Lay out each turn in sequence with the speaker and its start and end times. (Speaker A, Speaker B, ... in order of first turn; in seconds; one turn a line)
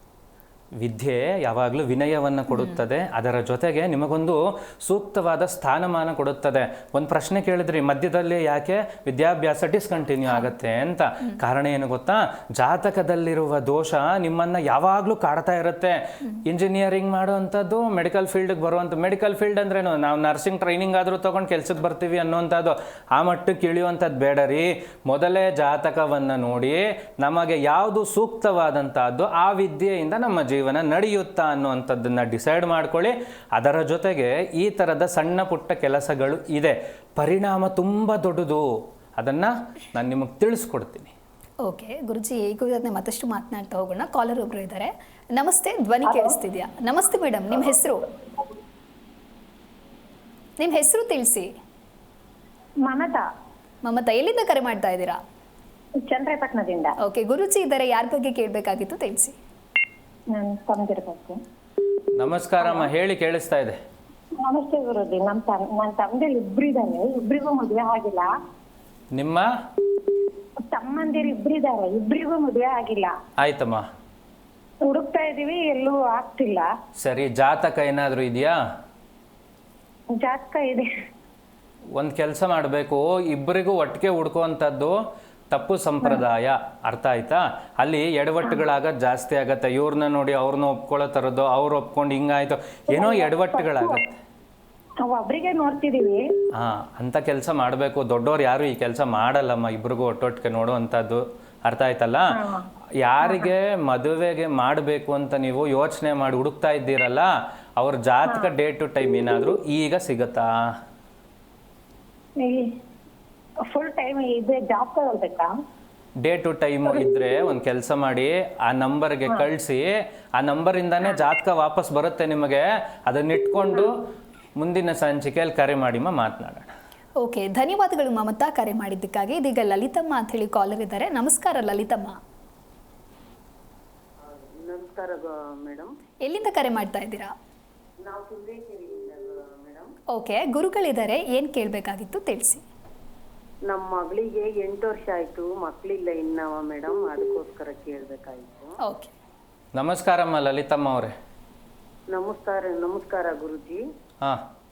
Speaker A: 0.8-38.7
Speaker A: 39.2-41.1
Speaker B: 41.6-48.1
Speaker C: 46.1-46.3
Speaker B: 50.6-51.5
Speaker C: 52.9-53.2
Speaker B: 53.9-55.2
Speaker C: 56.0-57.0
Speaker B: 57.0-59.4
Speaker C: 60.3-61.4
Speaker A: 62.1-63.8
Speaker C: 64.4-68.3
Speaker A: 69.1-69.5
Speaker C: 70.6-73.1
Speaker A: 73.4-73.9
Speaker C: 74.8-76.7
Speaker A: 77.0-78.6
Speaker C: 80.2-80.9
Speaker A: 82.0-85.0
Speaker A: 85.5-94.2
Speaker C: 92.9-94.0
Speaker C: 95.0-96.2
Speaker A: 96.5-102.4
Speaker C: 102.3-102.7
Speaker A: 103.0-110.8
Speaker C: 112.4-112.8
Speaker C: 113.7-115.6
Speaker A: 116.2-124.0
Speaker A: 124.6-126.7
Speaker B: 127.2-132.2
Speaker D: 134.2-135.9
Speaker B: 136.2-137.3
Speaker D: 138.0-139.9
Speaker B: 140.1-142.6
Speaker D: 143.7-148.8
Speaker B: 148.8-149.1
Speaker A: 149.7-151.1
Speaker D: 152.1-153.8